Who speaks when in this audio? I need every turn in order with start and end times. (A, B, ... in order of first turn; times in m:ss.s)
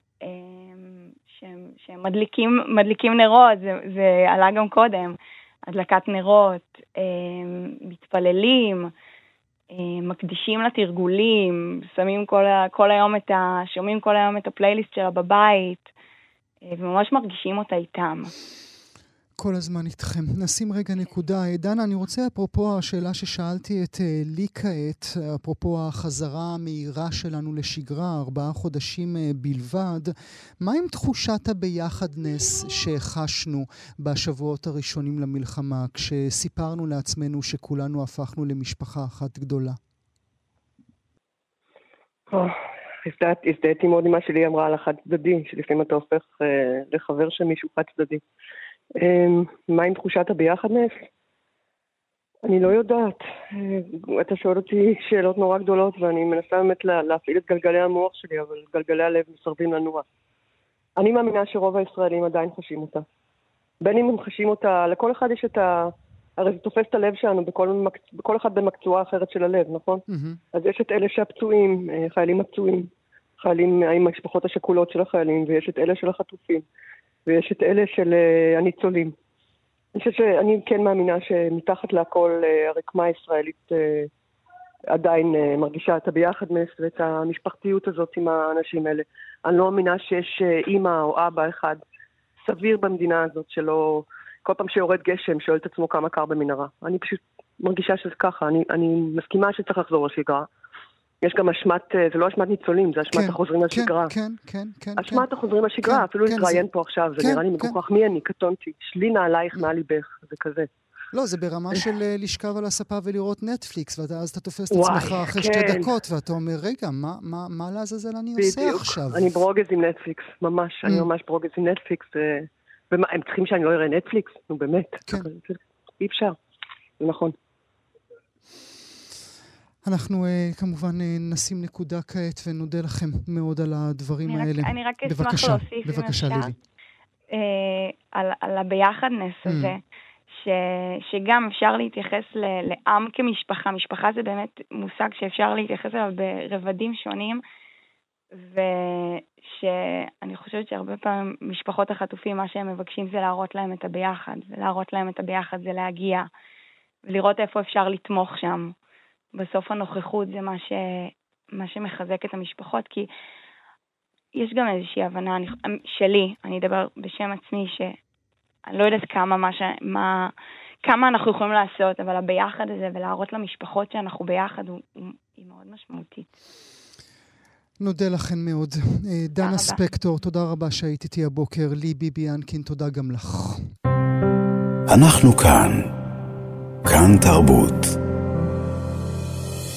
0:00.2-0:05.2 A
0:05.7-0:08.9 A
0:09.7-0:15.9 A
0:16.6-0:18.3 A
0:19.4-0:39.8 B
0:42.3-0:48.2 C
0:49.0-0:51.0 C
0:52.4-1:00.0 C
1:01.0-1:03.0 C
1:03.8-1:12.9 C
1:10.1-1:10.4 B
1:13.4-1:16.6 C
1:17.3-1:19.1 C
1:19.9-1:24.1 C
1:24.9-1:31.8 C
1:32.4-1:40.5 C
1:41.2-1:44.1 C
1:43.1-1:45.2 B
1:45.0-1:50.7 C
1:45.8-1:46.6 B
1:47.2-1:47.7 B
1:51.1-1:59.3 B
1:54.7-1:55.9 C
1:58.4-2:06.4 C
2:07.0-2:07.4 C
2:09.8-2:16.6 B
2:14.3-2:16.5 A
2:17.3-2:19.8 A
2:19.5-2:19.8 B
2:20.3-2:27.4 A
2:28.4-2:36.3 A
2:37.0-2:38.7 A
2:39.3-2:43.1 A
2:44.3-2:48.0 A
2:48.7-2:50.3 A
2:50.8-2:56.3 A
2:57.8-3:03.6 B
2:59.4-2:59.8 A
3:04.9-3:05.9 D
3:06.8-3:07.9 D